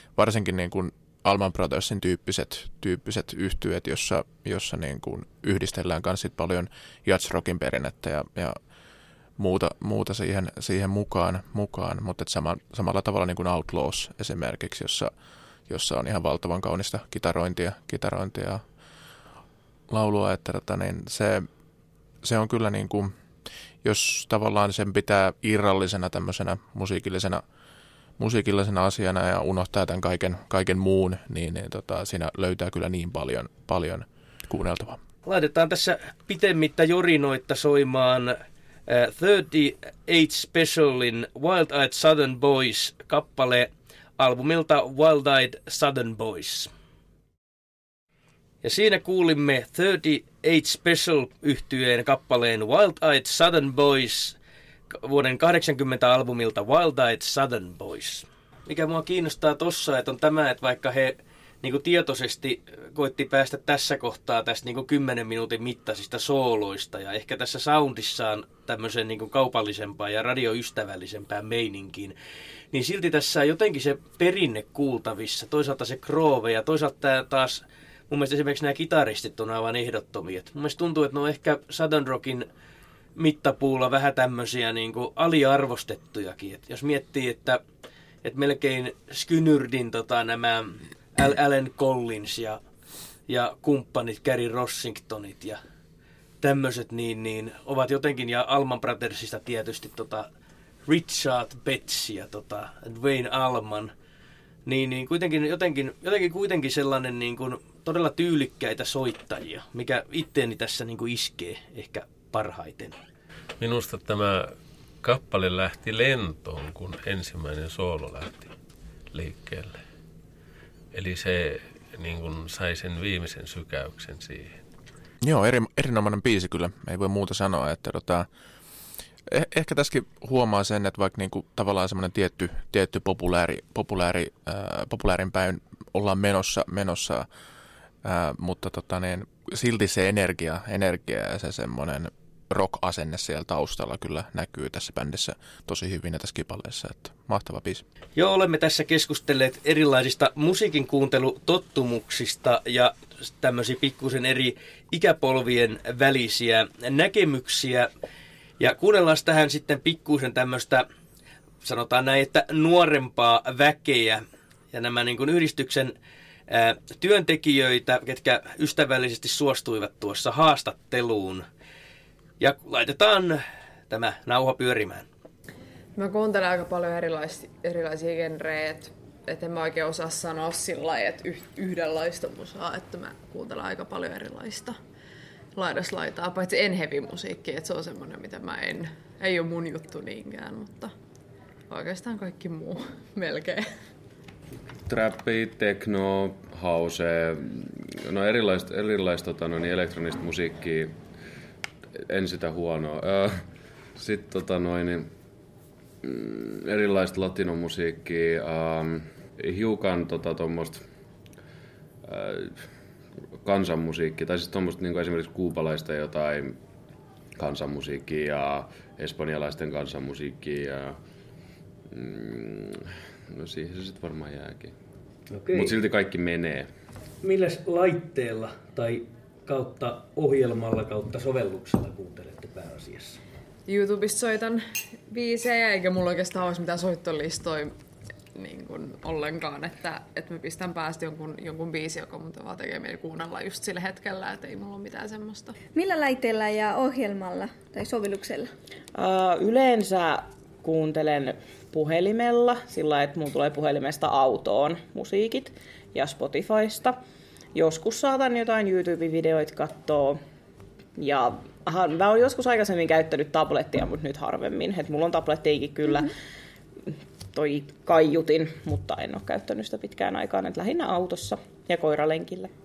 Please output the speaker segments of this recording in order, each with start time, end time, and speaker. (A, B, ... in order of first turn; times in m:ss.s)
0:00.2-0:08.6 A
0:09.4-0:15.1 A
0:15.7-0:18.6 A
0:19.9-0:21.5 A
0:22.2-0:23.1 A
0:23.8-0:27.4 A
0:28.2-0:35.0 A
0:35.3-0:38.4 B
0:38.9-0:46.7 B
0:48.6-0:54.4 B
0:54.9-1:12.2 B
1:12.7-1:22.5 B
1:23.2-1:27.6 B
1:28.2-1:32.6 B
1:33.3-1:35.6 B
1:36.4-1:40.3 B
1:40.9-1:43.9 B
1:44.7-1:53.0 B
1:53.6-1:54.5 C
1:55.0-1:58.5 C
1:59.1-1:59.8 C
2:00.9-2:04.6 C
2:05.2-2:08.3 A
2:09.3-2:17.3 A
2:18.0-2:27.8 A
2:28.2-2:37.9 B
2:38.6-2:40.8 B
2:41.6-2:45.9 B
2:46.5-2:51.4 B
2:52.4-2:55.1 B
2:56.0-3:04.8 D
3:05.6-3:10.9 D
3:11.7-3:13.6 D
3:14.9-3:21.0 E
3:22.1-3:25.1 E
3:26.0-3:30.8 E
3:32.1-3:32.7 E
3:33.4-3:36.6 E
3:37.4-3:41.0 E
3:41.9-3:44.8 E
3:45.3-3:45.8 B
3:45.5-3:46.7 E
3:47.2-3:53.2 B
3:53.7-3:57.7 D
3:58.4-4:05.6 D
4:05.7-4:08.5 F
4:09.0-4:17.0 G
4:17.6-4:20.2 G
4:21.0-4:26.1 G
4:27.3-4:32.5 G